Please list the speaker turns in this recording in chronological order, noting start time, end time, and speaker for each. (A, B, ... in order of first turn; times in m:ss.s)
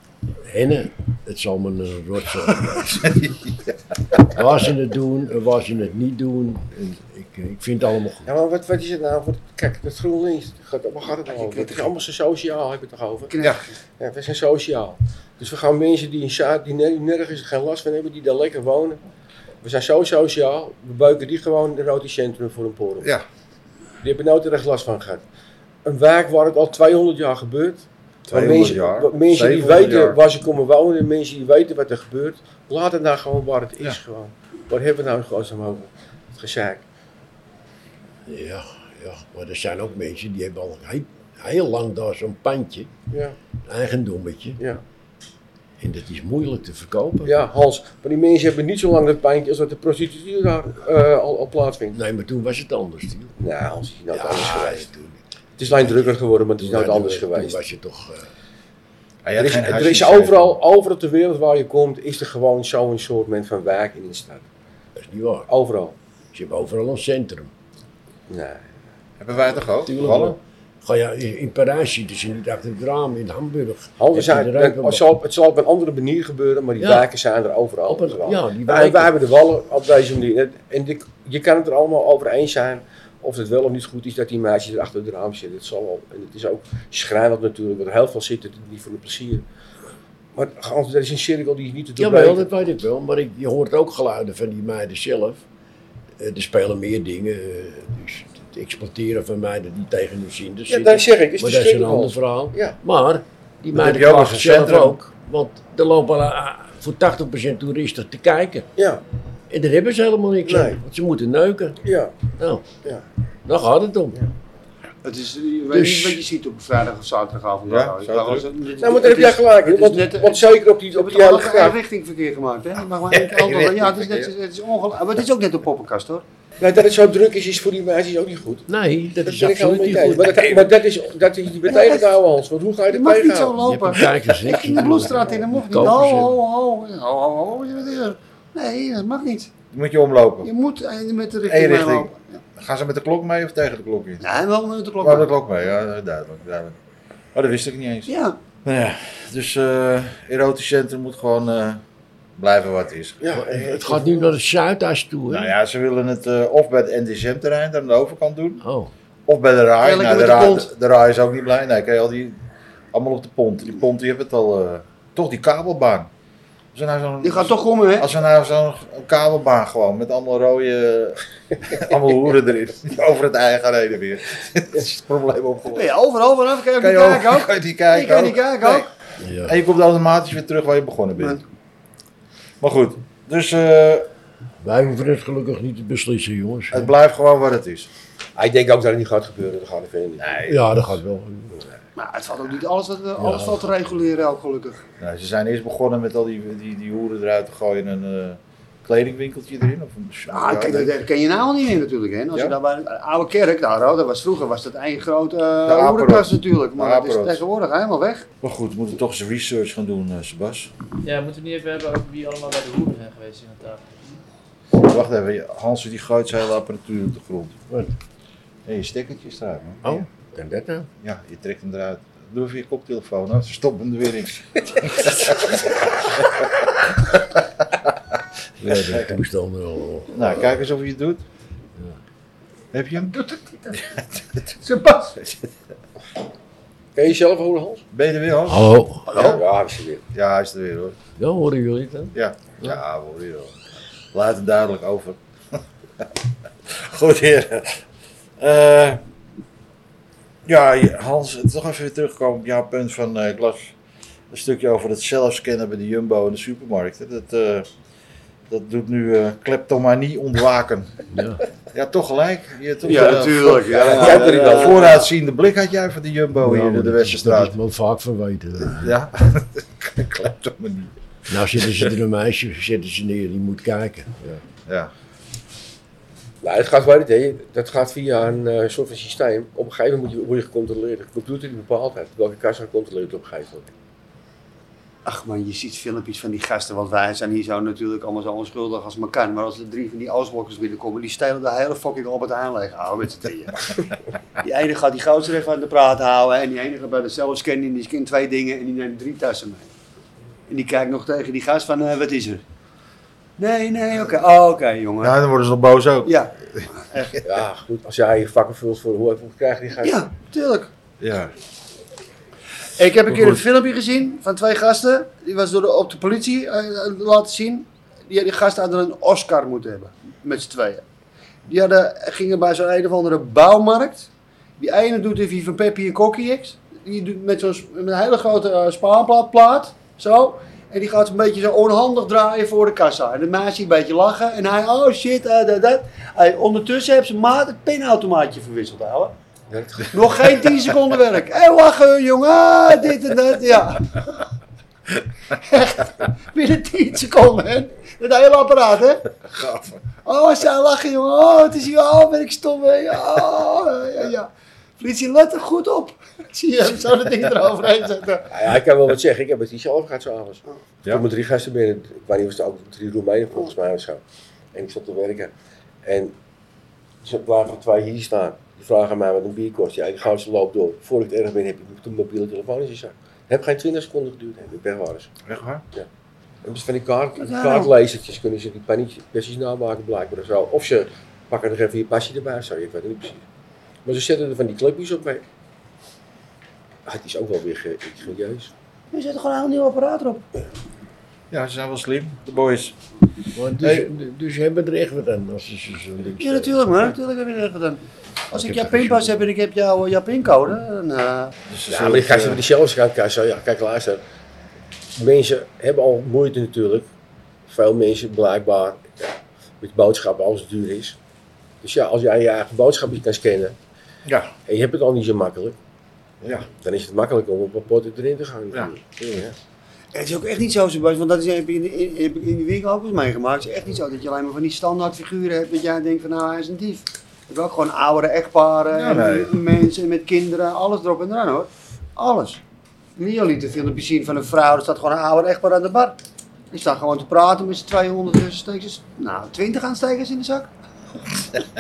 0:00.4-0:03.0 A
0:02.5-0:04.2 B
0:04.3-0:08.3 A
0:08.3-0:13.4 C
0:11.3-0:11.9 D
0:13.3-0:13.7 D
0:14.0-0:19.0 C
0:19.6-0:23.1 C
0:24.0-0:25.2 C
0:25.8-0:36.8 C
0:28.3-0:30.2 B
0:38.3-0:42.9 A
0:43.1-0:43.4 C
0:43.6-0:44.6 A
0:45.8-0:47.3 A
0:47.2-0:52.0 C
0:51.9-0:53.4 A
0:53.4-0:54.9 C
0:54.1-0:55.2 A
0:55.6-0:57.6 C
0:56.6-0:58.3 A
0:59.2-1:00.6 B
0:59.4-1:04.4 C
1:05.0-1:05.5 A
1:05.5-1:06.0 C
1:06.3-1:07.5 A
1:08.3-1:08.7 C
1:09.2-1:10.4 B
1:09.9-1:15.0 A
1:14.0-1:29.4 C
1:16.8-1:17.1 A
1:17.9-1:19.2 A
1:30.4-1:32.5 C
1:32.0-1:35.4 A
1:36.2-1:48.7 A
1:40.7-1:42.8 C
1:43.8-1:45.0 B
1:48.8-1:49.0 C
1:49.5-1:51.8 A
1:50.4-1:50.8 C
1:51.8-1:52.1 C
1:52.4-1:52.7 A
1:53.5-1:54.2 A
1:55.0-2:06.2 D
1:55.7-1:56.2 A
1:57.7-1:58.5 B
1:58.8-2:01.8 C
2:03.1-2:04.3 B
2:06.6-2:08.7 C
2:08.7-2:10.7 A
2:09.2-2:13.6 C
2:11.7-2:12.2 D
2:12.9-2:19.5 D
2:13.6-2:16.4 A
2:14.9-2:15.2 C
2:19.7-2:20.5 B
2:20.4-2:22.4 D
2:21.5-2:24.2 B
2:24.2-2:25.3 D
2:25.0-2:26.8 B
2:27.4-2:28.1 B
2:28.1-2:28.4 D
2:28.6-2:31.8 B
2:32.4-2:33.2 B
2:33.2-2:34.4 C
2:33.3-2:35.5 A
2:35.3-2:38.6 B
2:38.6-2:38.9 A
2:39.3-2:42.4 B
2:39.8-2:40.7 D
2:42.9-2:46.1 B
2:46.7-2:55.9 B
2:47.2-2:48.1 D
2:55.7-2:58.9 D
2:56.8-2:58.9 B
2:59.2-2:59.6 A
2:59.4-3:01.4 B
3:02.6-3:04.1 B
3:04.6-3:06.9 A
3:06.7-3:07.9 B
3:08.4-3:10.4 C
3:10.2-3:10.8 B
3:10.5-3:11.6 A
3:12.0-3:14.8 D
3:13.2-3:13.7 A
3:15.0-3:20.9 B
3:20.3-3:28.3 D
3:25.7-3:27.4 B
3:28.4-3:30.7 B
3:31.0-3:33.8 E
3:34.7-3:37.6 B
3:37.7-3:38.0 A
3:38.7-3:40.1 B
3:39.8-3:40.9 A
3:41.0-3:46.5 B
3:48.6-3:50.4 A
3:48.7-3:49.2 B
3:50.1-3:51.2 B
3:52.7-3:53.2 B
3:53.1-3:55.2 D
3:57.0-3:57.8 C
3:57.9-3:59.4 B
3:58.5-3:59.2 A
3:59.1-4:00.0 C
4:00.1-4:01.0 B
4:01.2-4:02.1 A
4:02.1-4:03.6 B
4:04.1-4:05.2 B
4:06.7-4:07.8 B
4:08.4-4:09.0 B
4:10.4-4:13.8 B
4:14.3-4:17.7 B
4:18.5-4:21.0 B
4:21.1-4:21.4 A
4:21.7-4:27.6 B
4:22.8-4:25.0 D
4:23.7-4:25.1 C
4:26.4-4:28.9 A
4:28.6-4:30.9 B
4:31.3-4:34.4 A
4:36.4-4:43.7 C
4:45.0-4:53.9 D
4:54.4-4:59.7 D
5:00.5-5:02.4 D
5:03.4-5:05.2 D
5:05.0-5:06.7 B
5:06.0-5:07.2 D
5:07.2-5:10.1 C
5:09.8-5:10.7 D
5:11.0-5:11.3 B
5:12.8-5:20.8 D
5:13.1-5:13.4 B
5:21.5-5:39.2 D
5:39.5-5:40.3 C
5:39.9-5:44.1 D
5:45.3-5:49.2 D
5:49.3-5:49.8 B
5:50.0-5:58.3 D
5:58.3-6:04.0 C
6:04.5-6:05.3 C
6:05.8-6:06.1 C
6:07.0-6:15.1 C
6:15.3-6:15.6 B
6:16.4-6:23.2 C
6:17.2-6:17.7 D
6:23.8-6:25.2 C
6:26.9-6:28.5 C
6:28.9-6:30.2 D
6:31.3-6:32.8 B
6:33.4-6:36.7 A
6:33.6-6:33.9 B
6:36.2-6:41.3 D
6:38.3-6:39.3 A
6:41.5-6:42.4 B
6:41.7-6:44.0 C
6:45.0-6:46.9 C
6:47.5-6:51.0 C
6:51.6-6:53.6 C
6:54.1-6:54.3 B
6:54.5-6:55.6 C
6:56.2-6:59.4 C
6:59.9-7:12.4 D
7:08.7-7:09.3 B
7:13.0-7:16.0 D
7:16.5-7:20.5 D